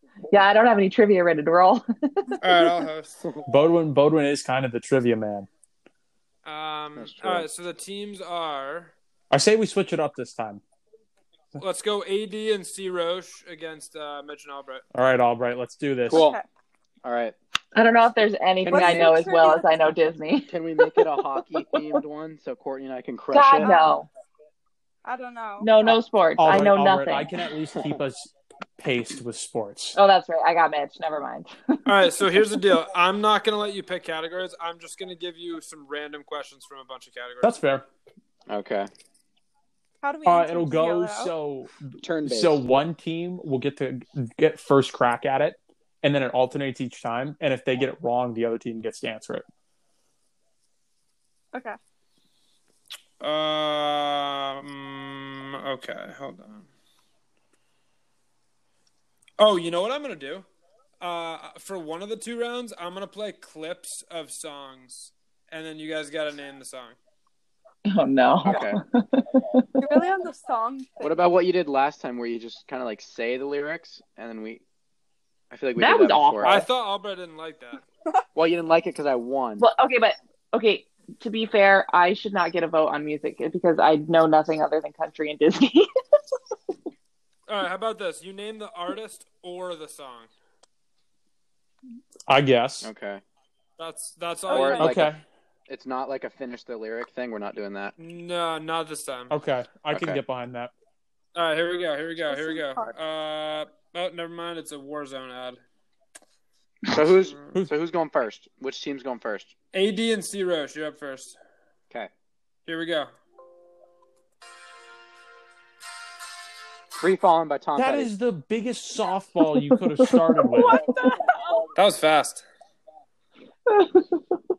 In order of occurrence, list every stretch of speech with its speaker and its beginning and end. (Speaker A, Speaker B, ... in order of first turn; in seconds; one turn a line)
Speaker A: 0.3-2.7
Speaker B: 2.4-3.2
Speaker C: 3.5-5.5
Speaker B: 6.4-8.9
Speaker D: 6.9-7.5
Speaker C: 9.3-10.6
Speaker B: 11.6-14.8
Speaker C: 14.9-16.2
Speaker D: 16.1-16.4
Speaker E: 16.1-16.4
Speaker D: 17.0-17.3
Speaker A: 17.7-21.1
Speaker D: 18.6-19.3
Speaker E: 18.7-19.8
Speaker D: 20.5-23.7
Speaker A: 23.3-24.1
Speaker E: 23.6-23.9
Speaker E: 25.0-25.7
Speaker A: 25.6-27.3
Speaker C: 26.4-30.0
Speaker A: 29.9-32.5
Speaker B: 31.9-37.6
Speaker C: 37.4-37.9
Speaker D: 38.5-38.9
Speaker E: 40.0-41.3
Speaker C: 40.2-49.5
Speaker D: 42.0-42.6
Speaker B: 53.2-56.7
Speaker B: 59.4-60.5
Speaker B: 61.0-67.0
Speaker A: 67.9-69.7
Speaker D: 68.4-68.8
Speaker E: 69.8-71.2
Speaker D: 71.0-74.6
Speaker D: 75.5-76.6
Speaker A: 75.8-76.6
Speaker B: 76.4-77.8
Speaker D: 78.3-79.6
Speaker A: 79.6-85.9
Speaker B: 87.5-90.3
Speaker C: 92.3-92.9
Speaker D: 92.8-93.2
Speaker B: 93.8-95.0
Speaker E: 94.5-95.0
Speaker D: 94.5-95.1
Speaker C: 94.8-95.2
Speaker D: 95.7-97.9
Speaker B: 98.0-99.3
Speaker C: 99.3-100.7
Speaker D: 99.9-100.2
Speaker B: 101.3-105.6
Speaker E: 102.3-102.9
Speaker D: 106.9-109.5
Speaker B: 109.7-111.3
Speaker B: 112.7-113.1
Speaker D: 117.0-118.1
Speaker C: 117.8-120.8
Speaker A: 119.6-120.8
Speaker E: 120.8-121.5
Speaker B: 121.8-122.4
Speaker A: 123.7-124.2